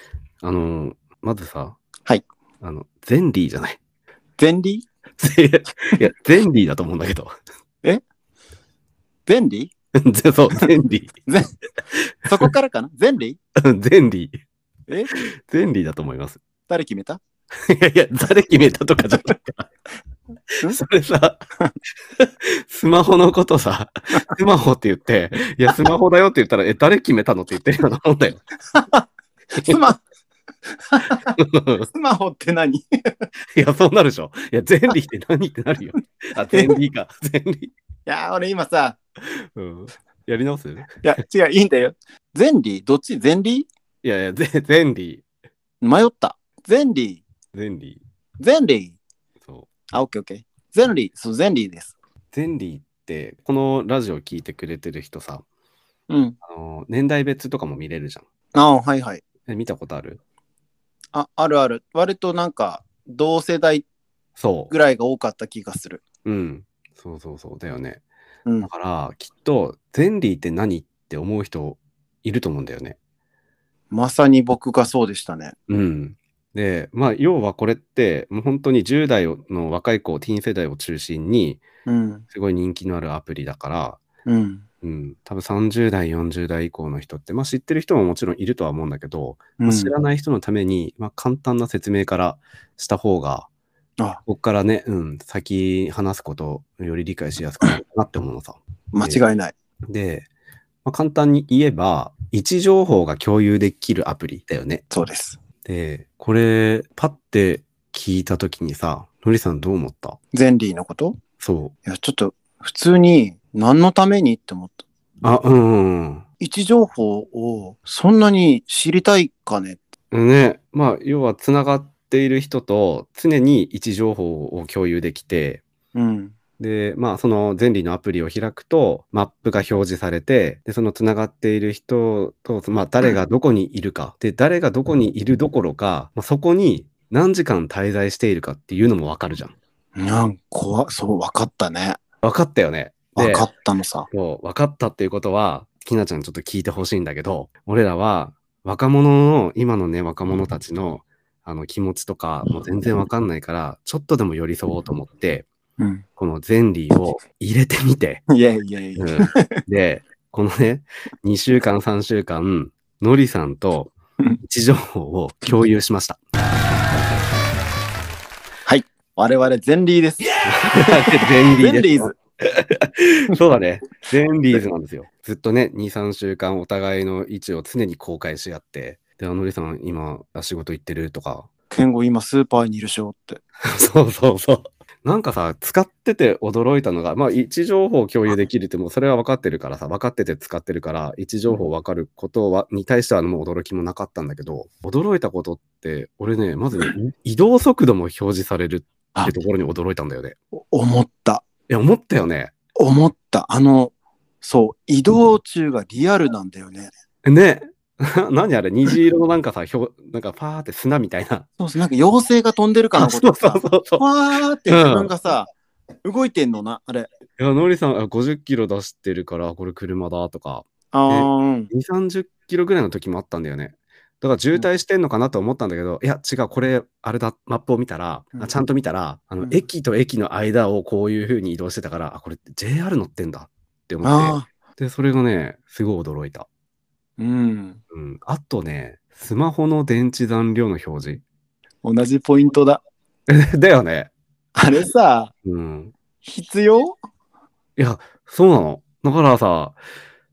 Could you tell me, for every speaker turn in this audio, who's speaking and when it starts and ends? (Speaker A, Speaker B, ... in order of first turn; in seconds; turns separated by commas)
Speaker A: 0.4-1.8, Speaker A: 2.6-3.8, Speaker B: 4.4-4.9, Speaker A: 5.2-7.3, Speaker B: 9.3-9.7, Speaker A: 10.0-11.1, Speaker B: 11.3-11.5, Speaker B: 12.3-13.4, Speaker A: 13.6-14.4, Speaker B: 14.9-15.1, Speaker A: 15.1-16.4, Speaker B: 16.7-17.2, Speaker A: 17.6-19.7, Speaker A: 20.6-21.4, Speaker A: 22.2-28.4, Speaker B: 28.7-30.0, Speaker B: 30.9-31.4, Speaker A: 31.4-31.9, Speaker B: 31.9-32.8, Speaker A: 33.5-37.7, Speaker B: 36.5-36.8, Speaker B: 38.1-39.0, Speaker A: 39.4-41.0, Speaker B: 41.0-43.7, Speaker A: 44.0-45.2, Speaker B: 45.8-47.2, Speaker A: 47.5-48.0, Speaker B: 48.4-49.0, Speaker B: 49.9-52.0, Speaker A: 52.3-55.4, Speaker B: 56.1-56.4, Speaker A: 56.4-58.2, Speaker B: 58.5-59.2, Speaker A: 59.5-60.2, Speaker B: 61.1-63.9, Speaker A: 64.4-64.7, Speaker B: 64.7-66.0, Speaker A: 66.2-68.0, Speaker A: 68.6-73.0, Speaker B: 73.9-75.5, Speaker A: 75.7-81.6, Speaker B: 81.9-82.2, Speaker A: 82.3-84.0, Speaker B: 84.3-84.6, Speaker A: 84.8-93.5, Speaker B: 89.6-89.9, Speaker A: 94.3-99.2, Speaker B: 98.9-99.5, Speaker A: 99.9-100.3, Speaker A: 100.8-104.8, Speaker B: 104.9-105.4, Speaker A: 105.7-110.2, Speaker B: 110.3-111.2, Speaker A: 111.4-111.8, Speaker B: 111.8-114.8, Speaker A: 115.2-116.2, Speaker B: 116.4-119.8, Speaker A: 120.1-125.6, Speaker B: 125.9-126.3, Speaker A: 126.6-139.6, Speaker B: 140.0-142.0, Speaker A: 142.2-143.5, Speaker B: 143.2-144.1, Speaker A: 144.1-155.5, Speaker B: 155.8-156.0, Speaker A: 156.2-158.2, Speaker B: 158.3-159.6, Speaker A: 159.0-166.2, Speaker A: 166.9-167.2, Speaker B: 168.7-170.3, Speaker A: 170.4-181.5, Speaker B: 171.6-172.2, Speaker B: 181.7-183.4, Speaker A: 183.6-200.4, Speaker B: 200.6-201.4, Speaker A: 201.7-202.5, Speaker B: 202.8-206.9, Speaker A: 207.2-211.5, Speaker B: 211.6-215.5, Speaker A: 212.9-214.0, Speaker A: 214.7-215.1, Speaker B: 216.0-217.1, Speaker A: 217.4-236.5, Speaker B: 220.9-221.7, Speaker B: 228.3-228.6, Speaker B: 234.0-234.5, Speaker B: 237.2-237.8, Speaker A: 237.9-241.2, Speaker B: 241.8-242.8, Speaker A: 243.3-244.1, Speaker B: 244.6-245.3, Speaker A: 245.4-245.9, Speaker B: 246.2-247.0, Speaker A: 247.8-249.8